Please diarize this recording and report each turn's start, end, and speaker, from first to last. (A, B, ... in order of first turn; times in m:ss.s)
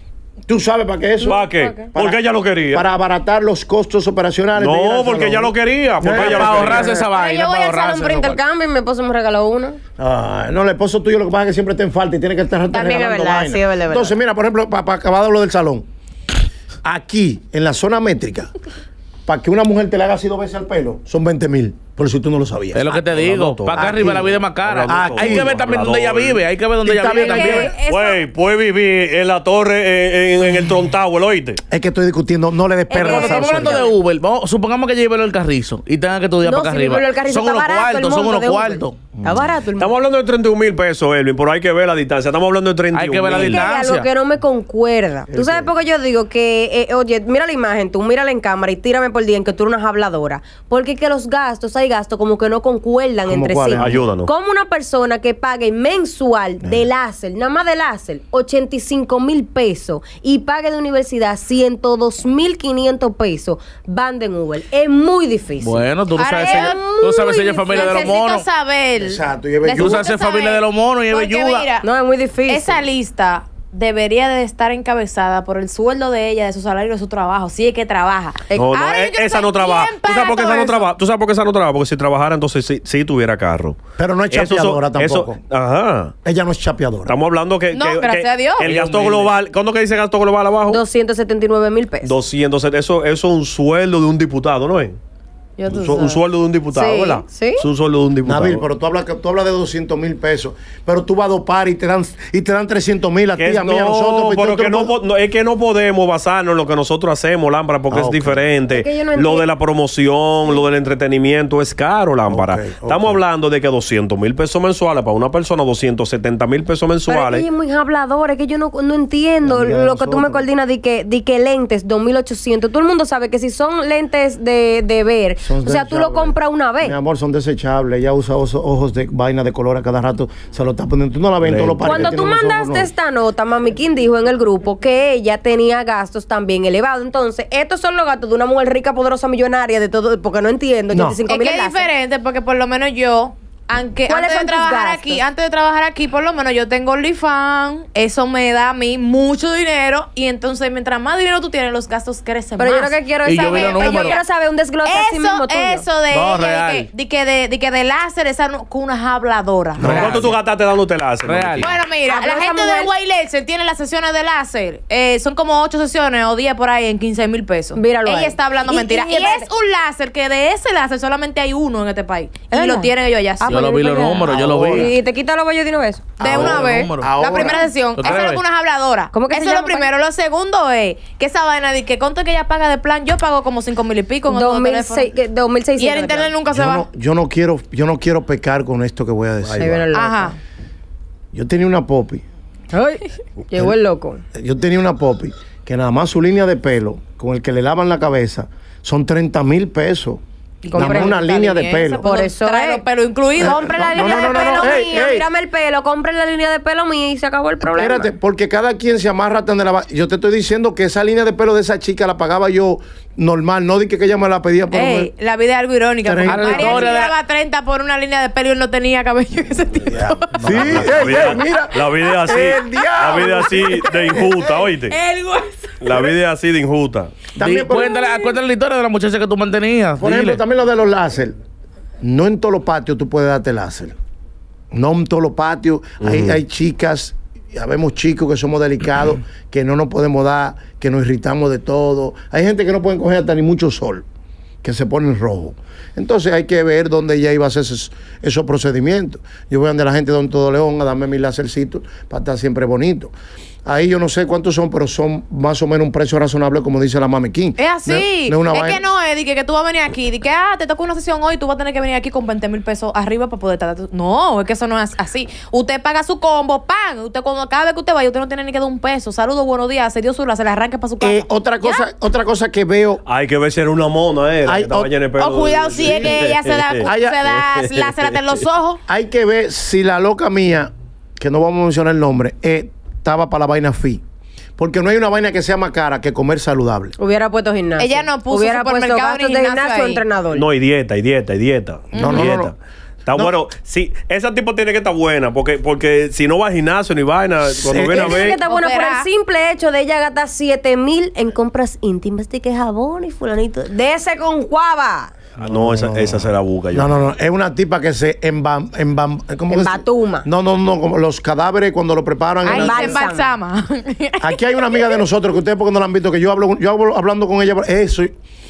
0:00.5-0:01.4 A
0:01.2-0:01.9 B
0:01.2-0:02.8 C
0:01.9-0:02.2 A
0:02.7-0:06.9 A
0:04.6-0:07.0 C
0:06.1-0:08.4 D
0:06.8-0:09.8 B
0:07.0-0:07.7 E
0:10.0-0:15.8 A
0:12.7-0:14.0 E
0:13.5-0:14.1 B
0:16.8-0:18.5 A
0:19.3-0:22.9 A
0:22.8-0:27.7 D
0:23.0-0:26.4 C
0:23.7-0:24.3 A
0:24.9-0:25.6 A
0:26.8-0:27.6 A
0:27.0-0:28.2 E
0:27.7-0:31.6 C
0:31.7-0:33.9 A
0:32.9-0:33.9 B
0:33.0-0:39.0 D
0:36.4-0:39.9 B
0:39.8-0:43.7 C
0:42.9-0:44.1 D
0:43.3-1:05.8 B
0:45.3-0:45.7 A
0:53.3-0:54.0 A
0:53.8-0:54.3 C
1:05.6-1:08.5 D
1:06.2-1:11.8 E
1:06.4-1:06.8 B
1:09.0-1:10.1 A
1:09.8-1:11.7 D
1:11.8-1:12.8 B
1:12.5-1:20.9 E
1:18.6-1:23.8 C
1:24.0-1:25.4 A
1:24.3-1:26.2 C
1:26.2-1:27.1 A
1:27.1-1:30.8 C
1:27.7-1:28.7 E
1:28.6-1:29.3 D
1:30.7-1:32.2 B
1:32.0-1:35.0 C
1:35.6-1:36.2 E
1:35.7-1:38.6 C
1:36.7-1:37.7 B
1:38.2-1:44.9 A
1:43.4-1:57.5 C
1:47.9-1:48.4 A
1:48.7-1:49.5 B
1:52.3-1:53.2 A
1:57.1-2:07.0 B
1:59.4-2:00.5 A
2:05.4-2:12.9 A
2:11.4-2:12.1 C
2:11.8-2:21.9 B
2:20.9-2:21.2 A
2:21.3-2:34.2 E
2:24.1-2:25.2 B
2:32.6-2:35.8 B
2:33.2-2:34.2 D
2:34.8-2:40.3 E
2:36.1-2:36.9 D
2:39.8-2:40.2 D
2:39.8-2:40.2 A
2:39.8-2:41.7 C
2:41.2-2:41.7 D
2:41.6-2:53.6 E
2:42.1-2:42.9 B
2:47.8-2:49.5 B
2:52.5-2:56.1 B
2:53.5-2:54.9 D
2:54.2-2:54.9 A
2:56.2-2:57.6 A
2:56.2-3:05.1 E
2:56.2-2:58.4 D
2:59.1-2:59.9 B
3:04.3-3:06.3 B
3:05.8-3:06.9 E
3:06.5-3:09.9 A
3:09.6-3:10.3 B
3:09.9-3:10.4 E
3:11.3-3:12.2 A
3:12.7-3:14.2 B
3:14.3-3:20.2 A
3:20.6-3:24.9 E
3:20.7-3:22.8 B
3:20.8-3:22.1 A
3:23.4-3:28.1 B
3:23.4-3:25.3 A
3:27.6-3:35.1 A
3:34.7-3:41.4 E
3:36.0-3:36.9 A
3:36.3-3:37.2 D
3:39.9-3:44.2 A
3:40.4-3:41.0 D
3:40.5-3:45.0 C
3:42.3-3:46.1 E
3:45.8-3:47.3 C
3:47.4-3:48.0 A
3:47.4-3:50.4 D
3:47.9-3:48.3 E
3:50.0-3:51.4 A
3:52.0-3:53.9 A
3:54.7-4:04.0 A
3:56.0-3:56.4 C
4:04.6-4:13.1 A
4:13.7-4:18.8 A
4:17.6-4:31.9 E
4:31.0-4:33.0 A
4:33.0-4:37.9 C
4:34.5-4:34.9 A
4:35.2-4:38.8 E
4:35.8-4:36.1 A
4:36.9-4:37.3 A
4:38.9-4:44.0 A
4:44.6-4:46.9 A
4:47.0-4:50.5 B
4:47.8-4:50.0 E
4:50.3-4:52.6 C
4:52.0-4:52.3 E
4:52.0-4:52.5 A
4:53.1-4:58.4 C
4:57.7-4:58.4 A
4:57.7-5:05.1 B
4:58.5-4:59.1 E
5:05.4-5:06.9 C
5:05.4-5:13.0 A
5:09.5-5:10.3 B
5:12.5-5:13.3 B
5:12.5-5:15.0 E
5:14.2-5:18.1 A